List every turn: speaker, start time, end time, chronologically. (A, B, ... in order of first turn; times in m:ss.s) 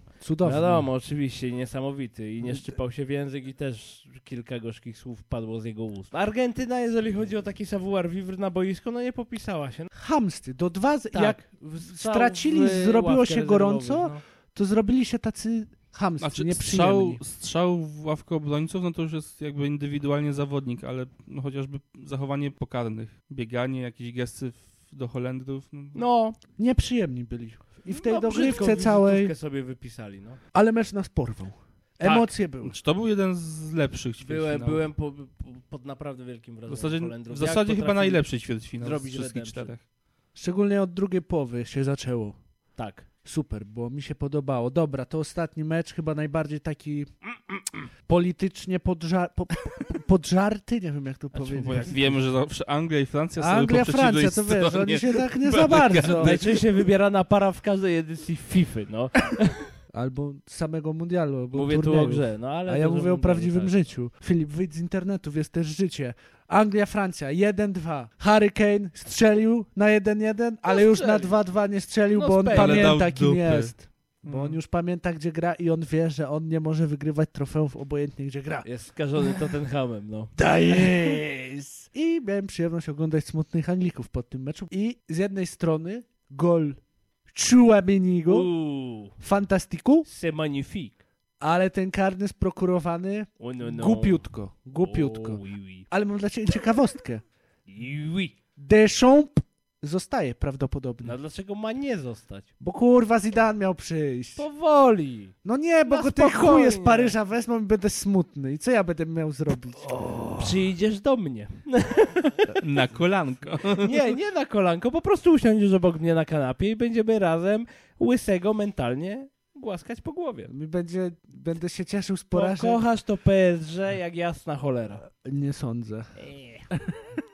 0:00.2-0:00.9 A
0:00.4-0:09.9 B
0:09.9-0:17.2 A
0:11.1-0:14.2 B
0:16.2-0:26.0 C
0:25.9-0:26.4 B
0:26.6-0:29.3 A
0:27.9-0:30.4 B
0:30.5-0:32.8 A
0:32.0-0:32.3 B
0:32.6-0:34.8 C
0:34.2-0:38.2 B
0:36.7-0:39.8 C
0:38.8-0:39.7 B
0:40.3-0:42.4 A
0:42.8-0:43.0 B
0:43.2-0:47.1 A
0:48.1-0:52.1 A
0:51.3-0:52.0 B
0:51.6-0:56.6 C
0:53.4-0:56.4 A
0:56.2-0:59.7 B
0:59.9-1:18.6 A
1:01.5-1:03.8 B
1:10.6-1:11.3 B
1:12.1-1:13.0 B
1:12.5-1:13.7 C
1:14.2-1:14.6 C
1:18.6-1:21.1 B
1:20.4-1:28.5 A
1:28.2-1:29.1 B
1:29.2-1:30.0 A
1:30.0-1:31.0 B
1:31.4-1:37.2 A
1:33.4-1:34.2 B
1:34.8-1:35.9 B
1:37.7-1:38.4 B
1:38.6-1:41.1 A
1:41.0-1:42.5 B
1:42.6-1:44.4 A
1:44.4-1:45.3 B
1:45.4-1:50.5 A
1:45.8-1:47.1 B
1:50.3-1:52.6 B
1:52.6-1:54.1 C
1:53.8-2:00.5 B
2:00.5-2:02.8 A
2:02.3-2:05.0 B
2:05.1-2:06.2 A
2:06.2-2:06.6 B